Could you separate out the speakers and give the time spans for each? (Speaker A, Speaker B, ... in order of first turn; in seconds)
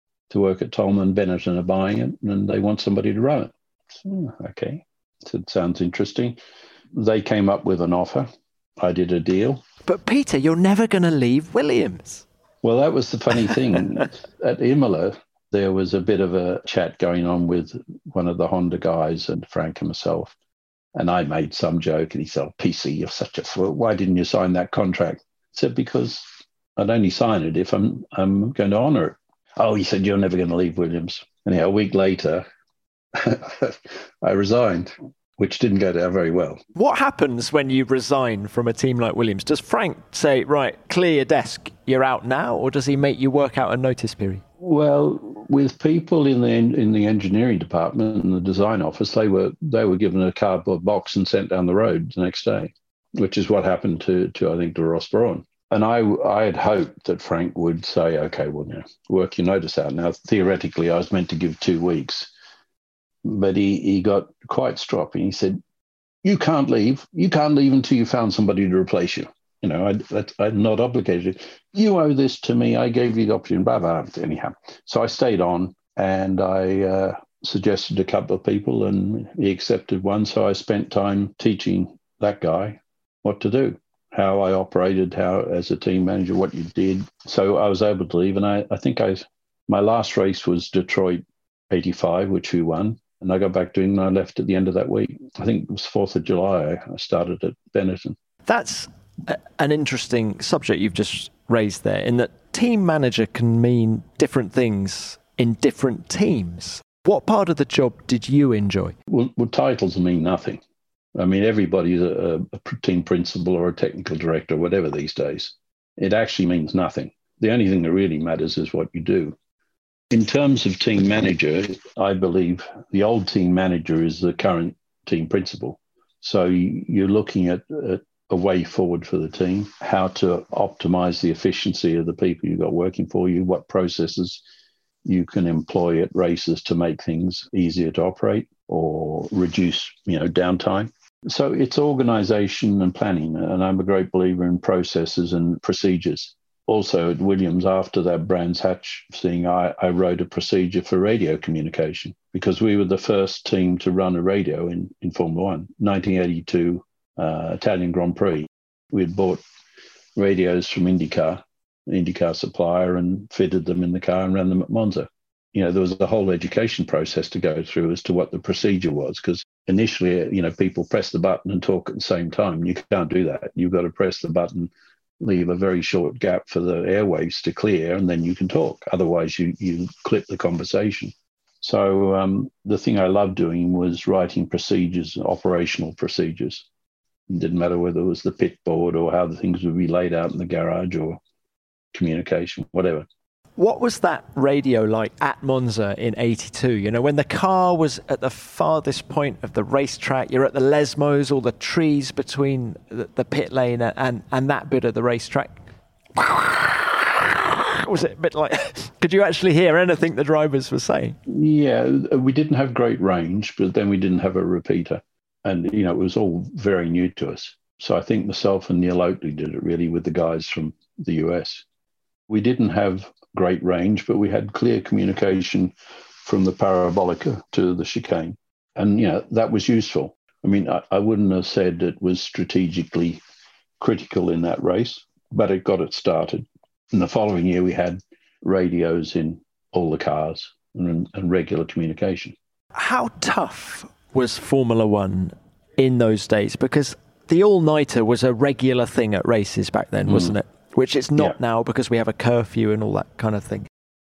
Speaker A: 0.3-6.4, 6.9-8.3, 8.8-9.6, 12.6-20.4, 20.9-32.5, 33.1-36.6, 44.6-62.3, 63.2-65.6, 66.2-98.2, 109.1-110.6, 111.2-119.4, 120.1-134.4, 135.1-159.4, 160.2-186.7, 187.3-191.2, 191.9-193.1, 211.3-221.7, 222.3-233.2, 233.8-242.4, 250.1-250.3
Speaker B: 9.8-12.2, 36.8-44.4, 98.5-109.0, 193.6-205.6, 206.2-211.2, 242.7-253.7